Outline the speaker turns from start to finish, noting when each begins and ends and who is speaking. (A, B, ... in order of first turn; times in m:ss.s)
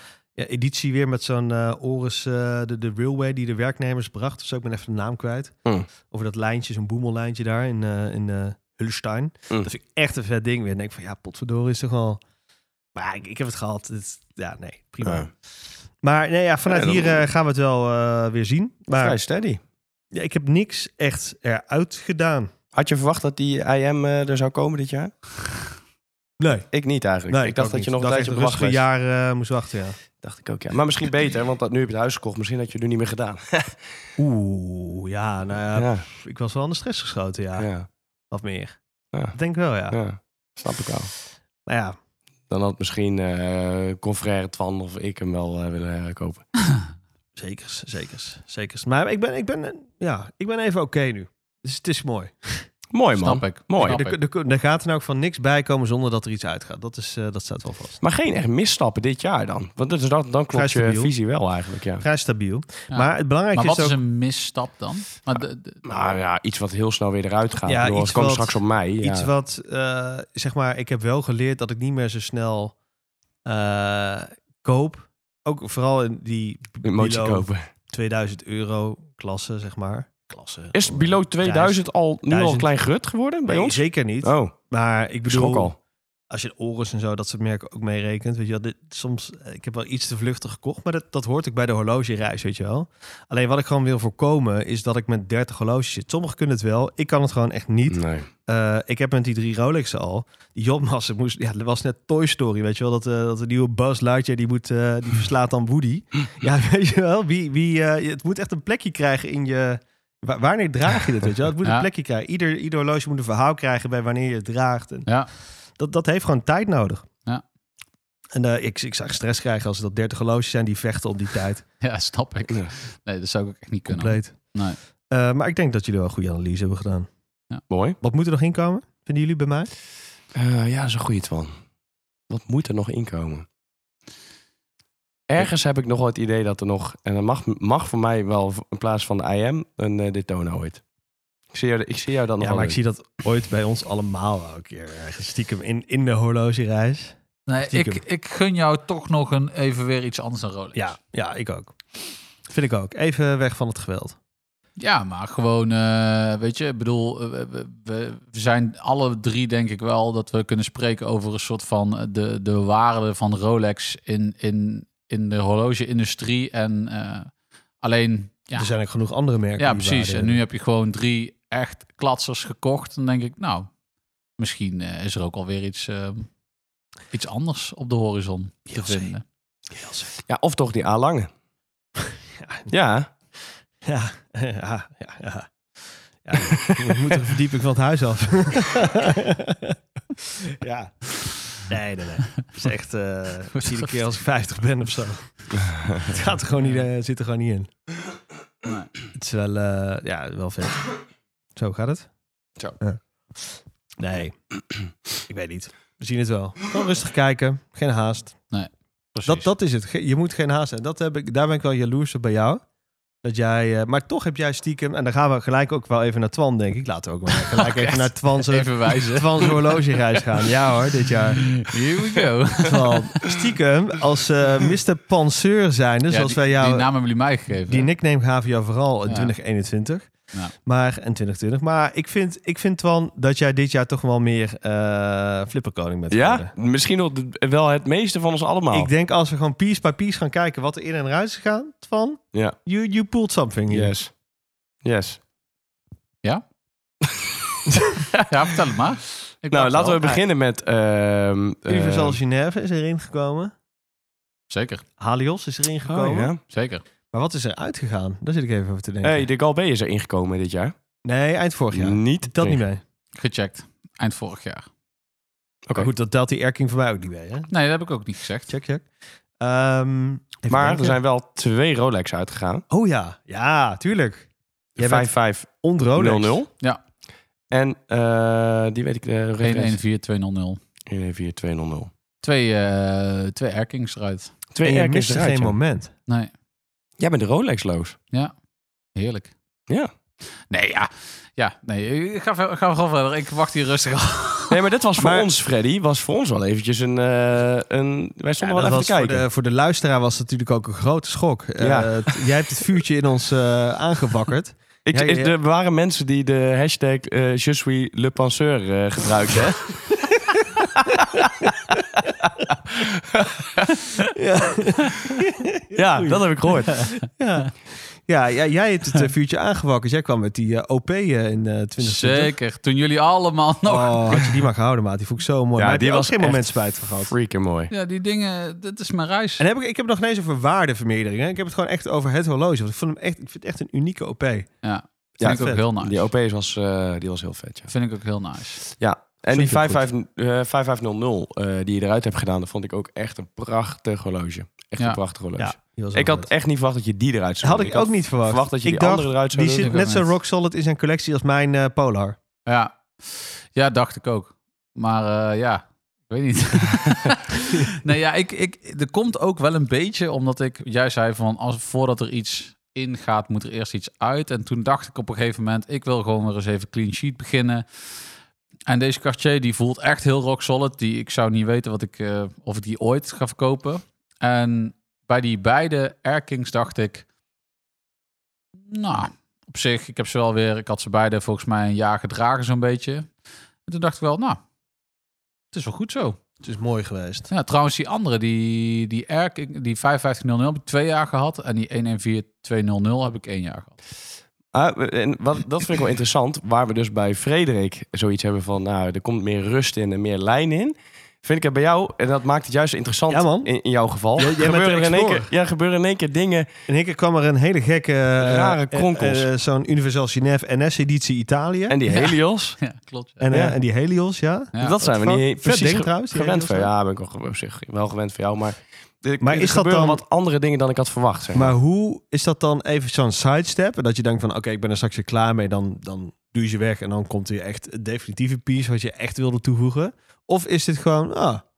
0:00.4-0:05.6 A
0:06.1-0:12.2 A
0:12.9-0:15.3 A
0:16.0-0:19.2 A
0:16.7-0:17.2 B
0:18.9-0:19.6 B
0:20.1-0:22.5 A
0:22.7-0:25.1 B
0:26.4-0:26.7 A
0:26.7-0:28.8 B
0:27.3-0:30.0 A
0:30.2-0:33.8 B
0:34.2-0:37.7 A
0:35.7-0:36.0 B
0:37.6-0:37.9 B
0:38.3-0:38.8 A
0:39.3-0:40.0 A
0:39.9-0:41.1 B
0:41.6-0:42.0 A
0:42.5-0:46.5 B
0:47.4-0:52.7 A
0:52.9-0:54.0 B
0:53.2-0:54.2 C
0:53.8-0:58.0 A
0:58.0-1:02.0 B
1:00.5-1:01.1 A
1:02.0-1:04.0 A
1:02.9-1:05.8 C
1:05.8-1:09.3 B
1:07.6-1:12.7 A
1:13.4-1:22.7 A
1:16.8-1:17.6 B
1:20.7-1:24.5 B
1:23.4-1:25.7 A
1:25.3-1:25.8 B
1:26.3-1:55.1 A
1:37.9-1:38.3 B
1:55.8-1:57.0 A
1:58.3-2:01.6 A
2:01.8-2:04.8 C
2:03.9-2:04.4 A
2:05.1-2:07.1 A
2:07.7-2:08.0 B
2:08.0-2:09.7 A
2:10.3-2:11.5 B
2:12.3-2:13.4 B
2:15.3-2:20.8 B
2:21.5-2:22.8 B
2:22.4-2:27.2 A
2:27.5-2:30.9 C
2:27.7-2:28.0 A
2:30.7-2:31.8 A
2:32.5-2:34.2 A
2:34.8-2:48.7 C
2:48.6-2:50.4 A
2:49.6-2:53.7 C
2:54.4-2:56.3 C
2:57.1-2:59.2 C
2:58.7-2:59.1 A
2:59.7-3:00.1 A
3:00.3-3:01.3 B
3:02.4-3:02.7 A
3:02.7-3:03.1 B
3:03.8-3:05.5 A
3:06.2-3:09.8 A
3:10.4-3:17.7 A
3:13.6-3:13.9 C
3:18.6-3:18.9 C
3:19.1-3:20.9 A
3:21.6-3:22.1 A
3:24.0-3:24.3 A
3:25.2-3:28.4 A
3:28.5-3:29.5 C
3:29.2-3:32.6 A
3:33.2-3:41.7 A
3:37.6-3:39.8 C
3:41.4-3:43.3 C
3:42.6-3:46.9 A
3:46.1-3:47.9 C
3:47.7-3:50.1 A
3:49.1-3:49.3 C
3:50.6-3:56.5 A
3:56.1-3:58.9 B
3:58.7-4:03.9 A
4:03.7-4:04.1 B
4:04.8-4:05.2 B
4:08.2-4:10.2 C
4:09.5-4:12.2 B
4:11.7-4:13.5 A
4:14.5-4:14.8 C
4:15.0-4:16.3 A
4:15.8-4:16.4 B
4:16.5-4:16.8 C
4:17.1-4:19.3 A
4:19.0-4:20.7 B
4:21.0-4:22.8 A
4:21.7-4:22.6 B
4:23.1-4:24.6 C
4:25.7-4:27.5 A
4:27.5-4:28.5 C
4:28.5-4:28.8 A
4:29.4-4:31.0 A
4:30.5-4:32.6 B
4:32.7-4:34.3 A
4:34.8-4:36.5 B
4:34.8-4:36.4 A
4:37.5-4:39.8 B
4:39.4-4:40.6 C
4:40.9-4:41.9 B
4:42.2-4:44.3 C
4:44.5-4:45.6 B
4:44.6-4:45.9 A
4:47.0-4:48.0 B
4:48.9-4:49.3 C
4:50.5-4:54.6 C
4:54.5-4:59.2 B
4:55.0-4:55.3 A
4:58.4-5:05.3 A
5:01.6-5:02.1 B
5:04.8-5:09.8 B
5:10.8-5:11.5 B
5:12.7-5:13.8 B
5:14.1-5:22.3 A
5:15.7-5:16.9 B
5:21.8-5:24.3 C
5:23.6-5:27.1 A
5:25.6-5:26.5 B
5:27.0-5:27.7 B
5:27.7-5:29.4 C
5:29.4-5:34.5 A
5:34.6-5:36.1 C
5:35.2-5:37.7 B
5:35.2-5:35.6 A
5:37.7-5:38.6 C
5:38.8-5:49.7 B
5:39.3-5:39.8 A
5:45.4-5:46.3 A
5:47.4-5:52.2 A
5:49.5-5:50.0 C
5:52.4-6:07.8 C
6:08.7-6:17.0 C
6:18.7-6:23.1 C
6:23.6-6:24.4 C
6:25.5-6:26.2 C
6:26.4-6:27.3 A
6:27.3-6:33.8 C
6:34.5-6:46.5 B
6:43.1-6:43.5 A
6:44.2-6:45.3 A
6:46.7-6:51.8 A
6:48.2-6:49.2 B
6:51.7-6:52.6 B
6:51.9-6:53.3 C
6:53.2-6:56.7 A
6:53.3-6:53.6 B
6:54.6-7:01.5 B
6:59.2-7:00.0 A
7:01.3-7:11.4 A